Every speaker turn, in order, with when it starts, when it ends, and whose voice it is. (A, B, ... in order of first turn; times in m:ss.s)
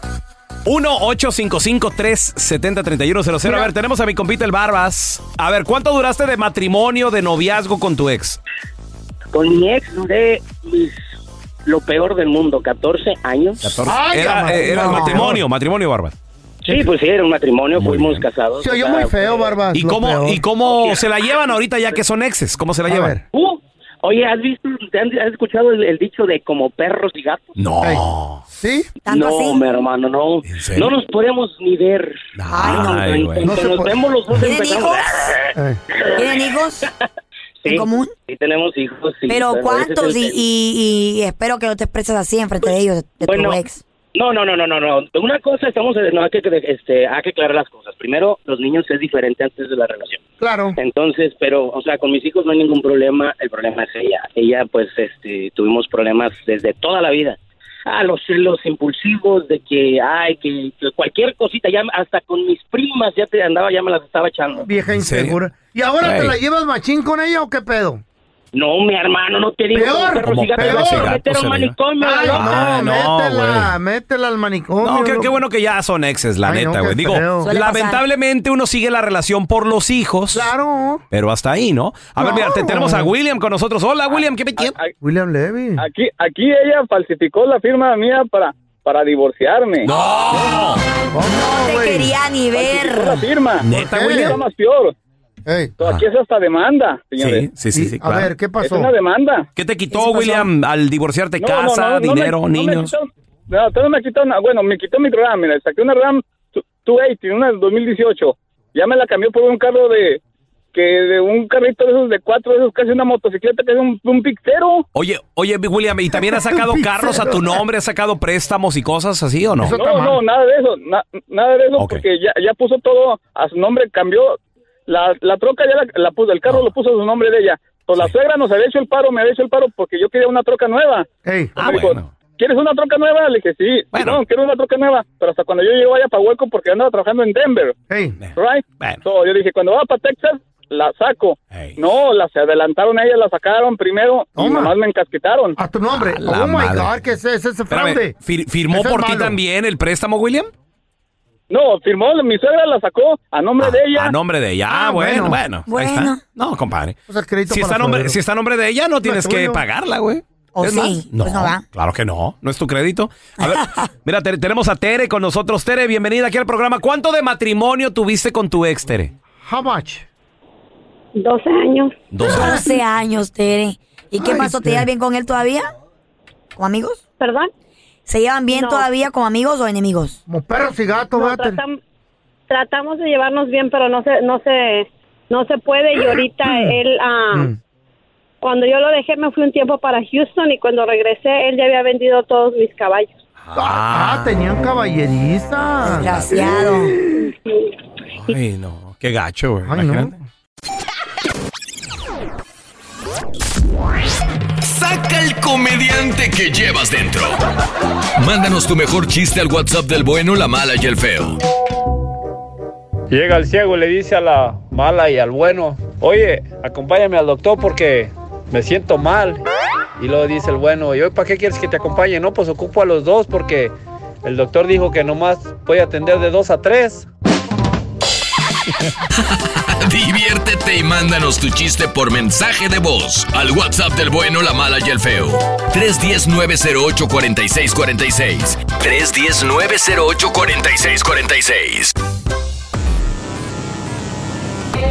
0:00.6-0:08.4 A
0:09.3-0:10.9 B
0:11.6-0:13.7 B
0:13.6-0:16.1 A
0:13.8-0:15.4 C
0:16.6-0:19.6 B
0:17.8-0:18.2 A
0:18.6-0:20.4 C
0:19.7-0:23.2 A
0:20.6-0:21.0 B
0:22.9-0:23.2 C
0:23.3-0:27.5 B
0:27.6-0:28.4 A
0:28.5-0:28.9 C
0:29.0-0:29.6 D
0:29.1-0:32.2 B
0:30.5-0:30.9 A
0:32.4-0:33.5 A
0:32.5-0:33.3 D
0:32.7-0:36.5 B
0:33.4-0:34.0 C
0:34.4-0:35.4 D
0:36.1-0:36.9 D
0:37.6-0:40.4 B
0:37.6-0:38.1 D
0:39.3-0:43.8 D
0:43.2-0:43.6 B
0:44.1-0:50.2 B
0:50.4-0:50.8 C
0:50.8-1:04.6 B
1:04.5-1:08.0 C
1:05.0-1:05.4 A
1:06.0-1:06.4 A
1:08.5-1:12.7 B
1:09.7-1:11.2 C
1:10.2-1:11.8 A
1:12.0-1:15.3 C
1:12.3-1:13.7 A
1:14.8-1:20.5 A
1:16.4-1:17.5 C
1:17.4-1:18.0 D
1:20.3-1:21.0 C
1:21.1-1:24.7 A
1:22.2-1:23.1 C
1:24.6-1:24.9 E
1:25.0-1:25.8 C
1:25.8-1:29.9 E
1:29.8-1:30.8 A
1:31.1-1:32.1 C
1:31.3-1:33.2 D
1:32.5-1:34.9 E
1:33.6-1:34.4 A
1:33.7-1:34.4 C
1:35.4-1:35.8 C
1:35.8-1:37.4 E
1:37.2-1:38.3 A
1:37.7-1:38.9 C
1:38.6-1:39.5 E
1:39.6-1:42.9 A
1:39.9-1:40.5 D
1:41.4-1:50.2 E
1:50.7-1:54.8 E
1:54.9-1:59.8 A
1:56.1-1:57.6 C
1:59.6-2:00.2 C
1:59.7-2:11.1 E
2:01.8-2:02.0 A
2:11.2-2:11.6 C
2:11.6-2:12.1 A
2:11.6-2:17.7 E
2:13.9-2:14.2 A
2:17.9-2:18.2 C
2:18.2-2:19.0 A
2:18.4-2:25.6 E
2:24.4-2:24.7 C
2:25.6-2:28.1 C
2:25.9-2:26.9 A
2:27.7-2:30.5 A
2:28.7-2:29.4 C
2:31.5-2:34.1 E
2:33.6-2:37.0 A
2:34.7-2:35.4 C
2:35.7-2:36.2 D
2:37.1-2:38.2 C
2:37.5-2:49.1 A
2:39.0-2:39.6 C
2:40.6-2:41.6 D
2:43.4-2:43.8 D
2:49.4-2:50.0 C
2:51.2-2:51.9 F
2:52.1-2:52.6 A
2:52.2-2:55.7 D
2:54.2-2:54.9 C
2:56.6-2:57.0 D
2:57.2-2:57.5 F
2:58.1-3:00.2 D
2:58.5-2:58.8 F
3:00.3-3:01.6 C
3:01.2-3:01.8 F
3:02.5-3:07.5 F
3:08.4-3:13.1 F
3:13.4-3:14.4 A
3:13.5-3:17.3 C
3:15.8-3:17.0 D
3:18.2-3:20.1 A
3:19.6-3:20.1 C
3:24.6-3:27.4 G
3:28.2-3:31.4 G
3:33.1-3:39.4 H
3:40.0-3:47.1 H
3:49.6-4:01.9 G